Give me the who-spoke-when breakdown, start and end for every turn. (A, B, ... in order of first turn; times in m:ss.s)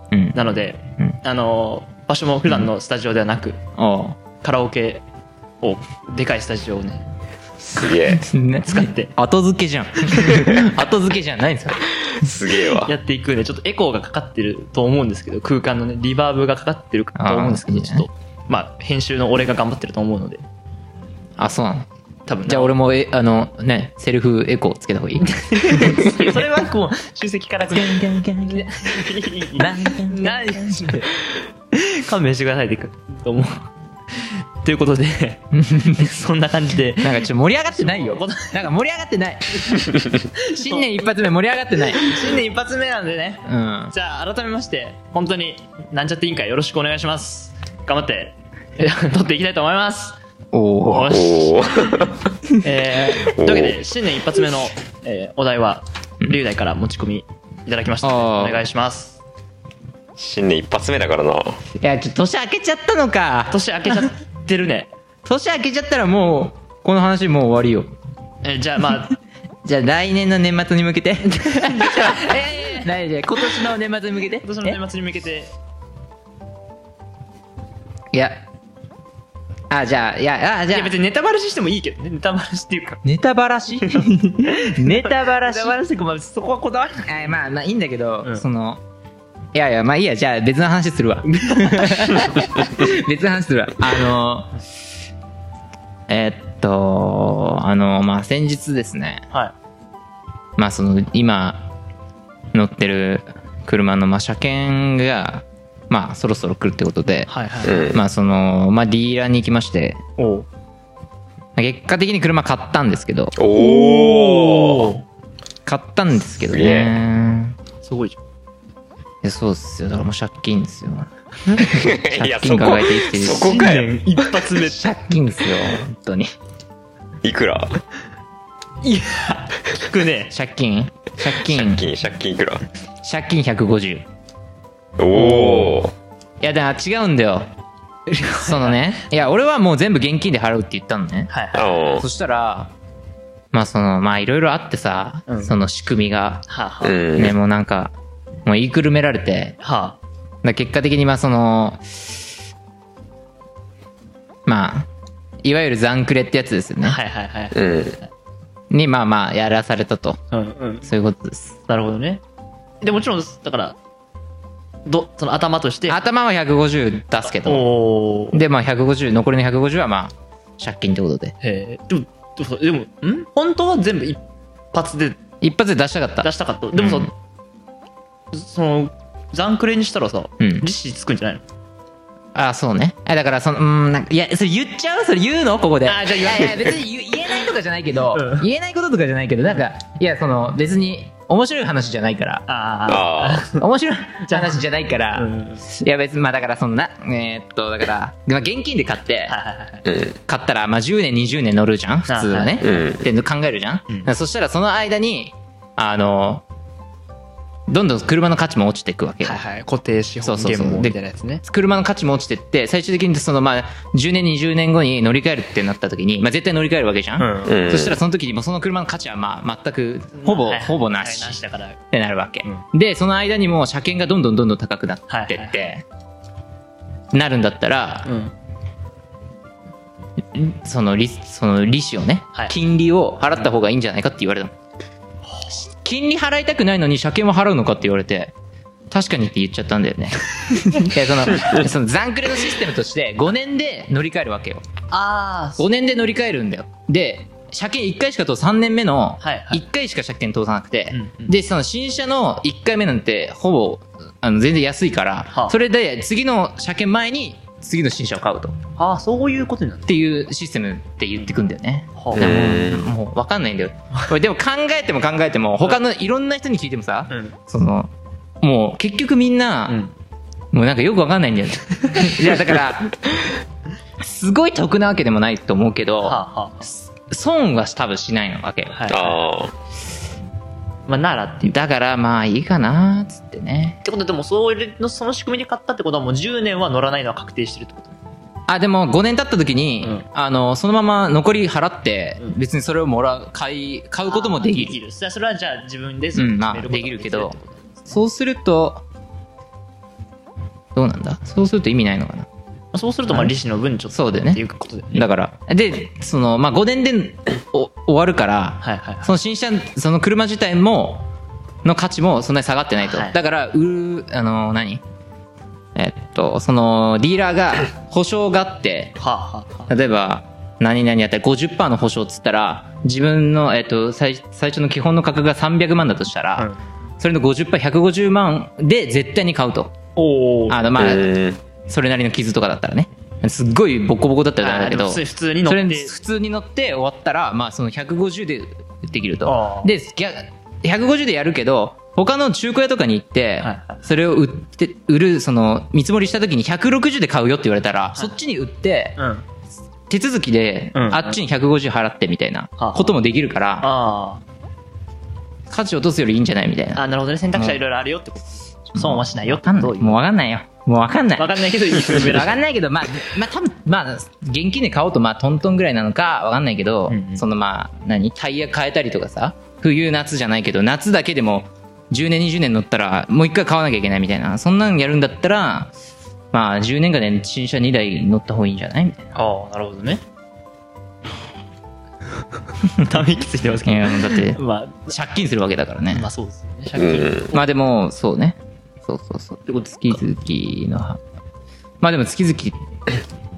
0:00.1-0:00.4 A
0:00.3-0:03.6 B
0:03.8-0:04.2 A
0:04.4-0:05.0 B
0:05.6-0:07.0 B
0:07.8-0:08.2 C
0:08.1-0:11.9 A
0:08.6-0:09.1 B
0:12.2-0:12.9 C
0:12.8-0:20.4 B
0:17.2-0:18.1 A
0:21.4-0:21.9 A
0:22.3-0:22.8 B
0:22.5-0:26.5 A
0:25.2-0:31.1 B
0:27.7-0:31.1 A
0:31.7-0:33.7 B
0:34.2-0:38.6 B
0:35.5-0:36.1 A
0:37.0-0:39.6 A
0:40.4-0:41.1 B
0:40.5-0:42.2 A
0:41.9-0:50.2 B
0:43.5-0:43.9 A
0:50.5-0:51.2 A
0:50.8-0:51.6 B
0:51.1-0:52.2 C
0:52.6-0:59.2 B
0:53.3-0:53.8 C
0:58.0-0:58.6 A
1:00.2-1:01.6 C
1:01.8-1:04.0 A
1:03.5-1:04.9 B
1:05.2-1:07.9 A
1:08.4-1:09.2 B
1:09.6-1:14.8 A
1:11.3-1:12.9 B
1:14.4-1:15.5 B
1:18.1-1:18.4 A
1:19.7-1:20.9 A
1:20.7-1:23.0 B
1:23.0-1:25.8 A
1:23.8-1:27.4 B
1:27.0-1:28.8 A
1:29.5-1:34.5 A
1:31.3-1:32.5 B
1:36.1-1:39.3 A
1:40.6-1:41.7 A
1:42.5-1:47.3 A
1:47.3-1:47.9 B
1:47.6-1:48.0 C
1:47.8-1:50.0 A
1:50.2-1:50.5 B
1:51.6-1:53.4 A
1:53.4-1:54.9 C
1:53.6-1:55.0 B
1:55.7-1:57.6 A
1:56.5-1:57.0 C
1:57.8-1:58.2 B
1:59.2-2:03.7 A
2:01.6-2:04.4 C
2:03.2-2:04.9 B
2:04.6-2:06.3 A
2:07.2-2:07.8 C
2:08.8-2:10.3 B
2:10.3-2:11.8 A
2:11.3-2:12.7 C
2:13.0-2:14.1 A
2:15.0-2:15.9 C
2:15.1-2:15.8 B
2:16.4-2:17.5 A
2:18.1-2:19.0 B
2:18.4-2:21.3 A
2:21.3-2:21.8 B
2:21.6-2:22.1 C
2:22.0-2:22.7 A
2:23.5-2:26.5 A
2:25.3-2:25.6 B
2:26.5-2:27.0 B
2:26.8-2:27.4 C
2:27.2-2:28.0 A
2:28.5-2:29.6 A
2:29.6-2:30.0 B
2:30.4-2:32.2 A
2:34.5-2:34.9 A
2:35.4-2:37.0 A
2:36.8-2:38.1 B
2:37.6-2:38.0 C
2:38.7-2:40.2 A
2:40.3-2:40.9 B
2:40.8-2:41.6 A
2:41.7-2:42.2 B
2:42.8-2:43.8 B
2:44.9-2:46.0 B
2:45.9-2:47.7 A
2:47.2-2:48.4 B
2:48.3-2:51.4 A
2:51.4-2:54.2 B
2:54.7-2:55.2 B
2:55.4-2:57.1 A
2:56.2-2:57.1 B
2:58.3-3:01.4 B
3:00.4-3:00.6 A
3:02.4-3:12.5 A
3:05.9-3:06.7 B
3:08.1-3:08.5 B
3:12.5-3:13.6 B
3:12.9-3:13.4 C
3:13.6-3:19.4 A
3:14.2-3:14.6 B
3:15.1-3:15.7 B
3:19.3-3:19.9 B
3:19.9-3:20.2 C
3:20.3-3:26.4 A
3:22.1-3:22.6 B
3:22.6-3:23.0 C
3:27.7-3:29.4 A
3:29.2-3:31.4 B
3:30.2-3:41.4 A
3:37.2-3:37.6 B
3:37.5-3:38.0 C
3:40.2-3:41.8 B
3:41.9-3:45.8 A
3:45.1-3:45.6 B
3:47.1-3:48.1 A
3:48.0-3:48.3 B
3:50.3-3:54.6 A
3:55.3-3:55.6 B
3:55.5-3:58.3 A
3:58.9-4:04.6 A
4:04.9-4:05.7 B
4:05.6-4:18.6 A
4:09.2-4:09.6 B
4:10.9-4:11.4 B
4:15.3-4:15.6 B
4:18.8-4:20.0 B
4:19.9-4:29.8 A
4:22.0-4:22.6 B
4:22.2-4:22.9 C
4:27.1-4:27.4 B
4:29.7-4:29.9 B
4:30.5-4:33.0 A
4:31.8-4:32.2 B
4:34.0-4:39.0 A
4:36.0-4:36.7 B
4:38.7-4:39.2 B
4:38.9-4:39.5 C
4:40.9-4:41.6 B
4:41.5-4:43.8 A
4:43.8-4:48.0 B
4:48.5-4:54.8 A
4:49.8-4:50.1 B
4:54.1-4:58.0 B
4:56.2-4:57.4 A
4:57.9-4:58.8 A
5:00.8-5:02.3 A
5:02.7-5:05.1 B
5:03.1-5:03.3 A
5:03.9-5:04.4 A
5:04.9-5:11.1 A
5:08.6-5:09.1 B
5:11.6-5:14.8 A
5:12.8-5:13.2 B
5:15.8-5:19.0 A
5:19.0-5:19.7 B
5:19.7-5:26.5 A
5:27.0-5:29.7 A
5:30.0-5:30.8 B
5:30.5-5:31.1 A
5:30.8-5:31.4 C
5:31.7-5:49.0 A
5:34.4-5:35.9 B
5:39.2-5:39.7 B
5:43.4-5:43.8 B
5:49.0-5:49.2 B
5:49.9-5:53.7 A
5:50.7-5:51.2 B
5:52.6-5:53.0 B
5:53.6-5:54.2 B
5:55.5-5:57.6 A
5:56.8-6:00.0 B
5:58.8-6:15.7 A
6:01.2-6:02.4 B
6:06.9-6:07.2 B
6:16.3-6:19.1 A
6:19.2-6:20.0 B
6:22.7-6:25.0 B
6:23.6-6:26.1 A
6:25.9-6:27.4 B
6:26.8-6:27.3 C
6:27.3-6:31.0 A
6:29.5-6:30.0 B
6:31.8-6:32.6 A